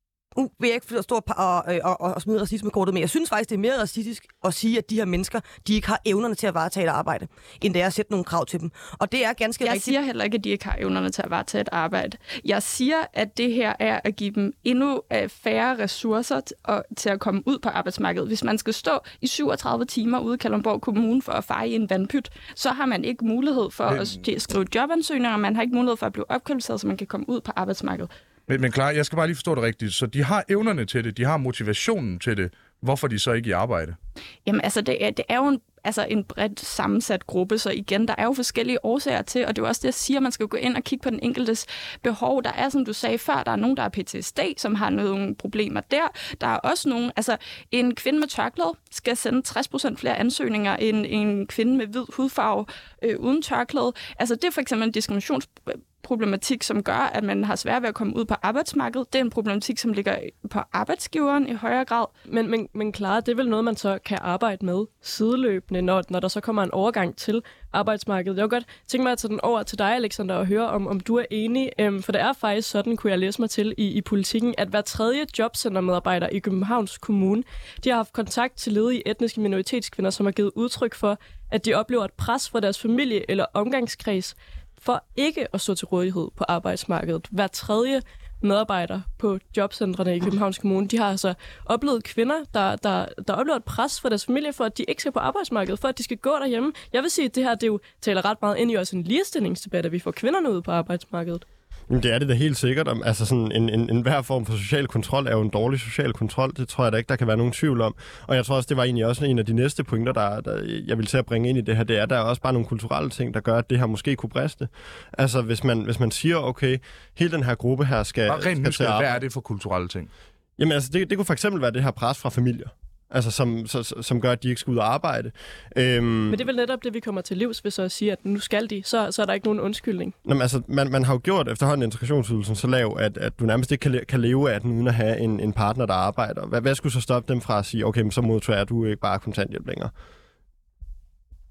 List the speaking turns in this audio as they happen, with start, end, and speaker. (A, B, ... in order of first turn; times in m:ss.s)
0:00.4-0:10.0 A
0:09.6-0:28.1 B
0:23.9-0:24.1 C
0:28.5-0:34.0 C
0:34.4-1:02.1 B
1:02.3-1:41.4 D
1:41.9-1:59.1 E
1:58.3-2:00.1 C
2:00.6-2:06.4 E
2:06.3-2:10.1 D
2:10.2-2:19.9 E